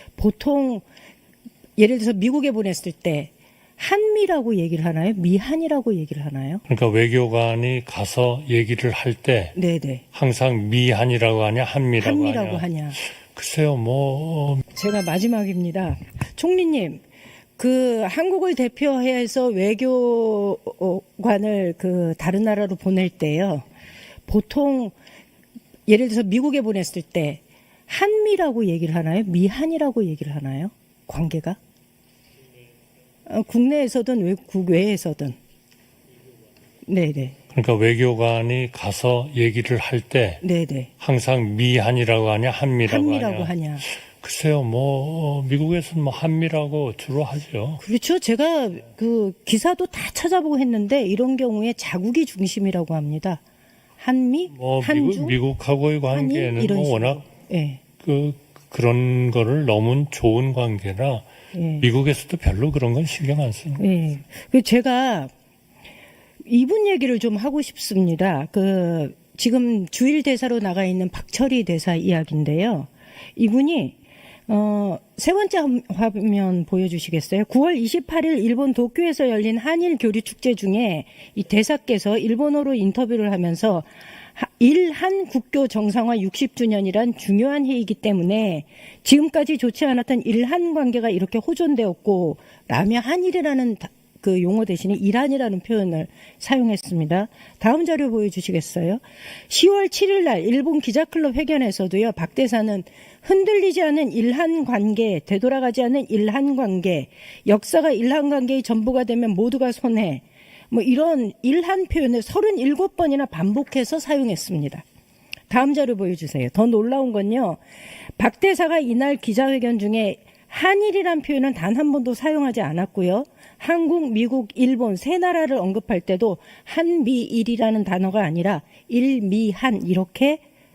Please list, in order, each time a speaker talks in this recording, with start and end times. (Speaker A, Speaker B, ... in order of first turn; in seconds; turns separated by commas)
Speaker A: 0.2-0.8, Speaker A: 1.8-6.6, Speaker B: 6.7-9.6, Speaker A: 9.6-10.0, Speaker B: 10.1-14.7, Speaker A: 12.0-13.0, Speaker A: 14.7-17.0, Speaker A: 17.6-23.7, Speaker A: 24.3-24.9, Speaker A: 25.9-31.6, Speaker A: 33.3-35.4, Speaker A: 36.9-37.4, Speaker B: 37.5-40.4, Speaker A: 40.4-40.9, Speaker B: 41.0-47.8, Speaker A: 42.9-43.9, Speaker A: 47.8-53.4, Speaker A: 54.0-55.4, Speaker B: 54.5-57.2, Speaker A: 56.1-57.8, Speaker B: 58.0-61.3, Speaker A: 61.5-61.9, Speaker B: 61.8-63.9, Speaker A: 63.8-65.3, Speaker A: 66.5-114.8, Speaker A: 115.5-117.6, Speaker A: 118.2-130.4